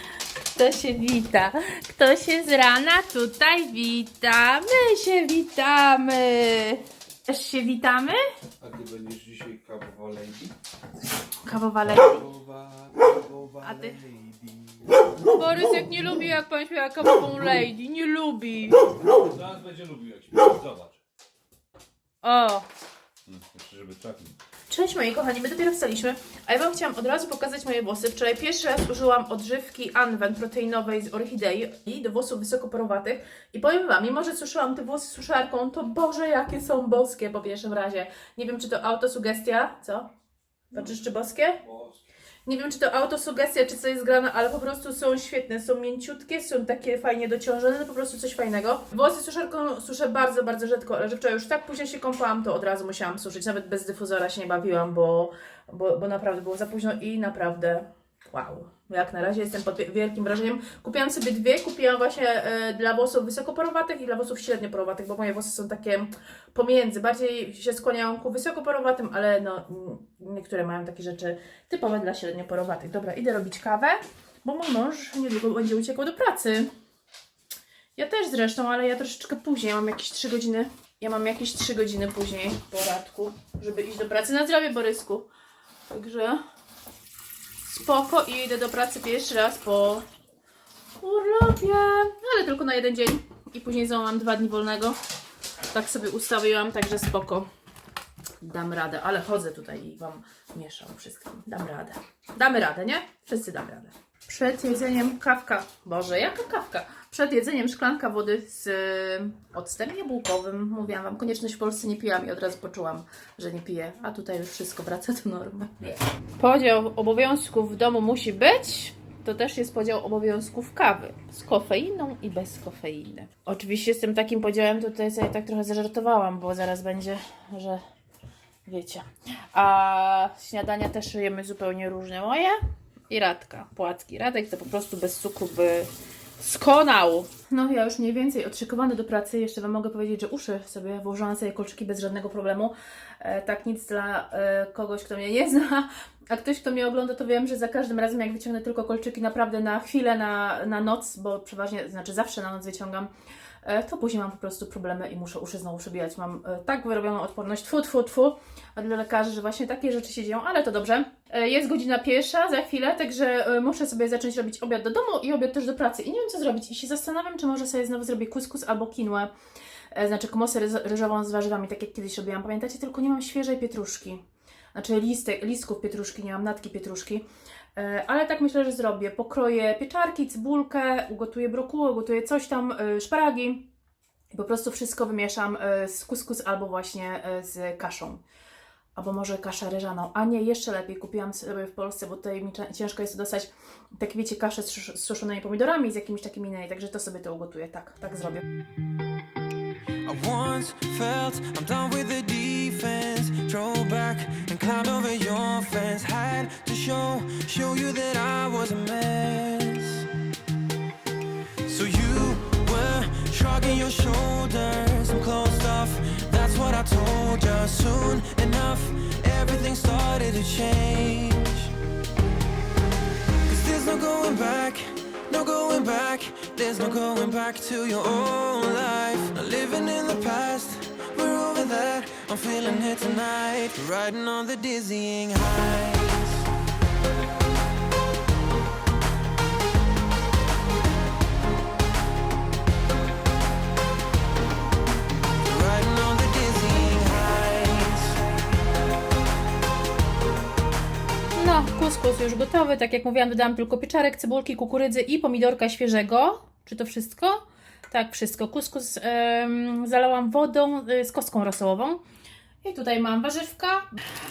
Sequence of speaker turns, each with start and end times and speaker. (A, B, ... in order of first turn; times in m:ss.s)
0:00.6-0:08.2 A
0:08.6-0:10.6 B
0:11.4-0:12.2 A
0:12.0-0:15.0 B
0:13.6-0:14.0 A
0:15.3-0:18.9 A
0:19.1-0:21.0 B
0:22.2-0:22.7 A
0:23.3-0:24.3 B
0:24.7-0:40.1 A
0:40.7-0:41.6 A
0:42.5-1:16.7 A
1:18.0-1:25.3 A
1:25.9-1:26.4 A
1:27.7-1:30.0 A
1:31.0-1:35.0 A
1:35.7-1:37.5 A
1:38.4-2:07.8 A
2:08.7-2:12.6 A
2:13.1-2:33.1 A
2:33.6-2:49.3 A
2:49.9-2:54.2 A
2:54.8-2:57.2 A
2:57.8-3:03.7 A
3:04.3-3:08.2 A
3:09.0-3:18.4 A
3:20.0-3:30.1 C
3:31.7-3:41.7 C
3:43.5-3:56.5 C
4:05.4-4:08.2 C
4:11.4-4:22.0 A
4:22.6-4:23.9 A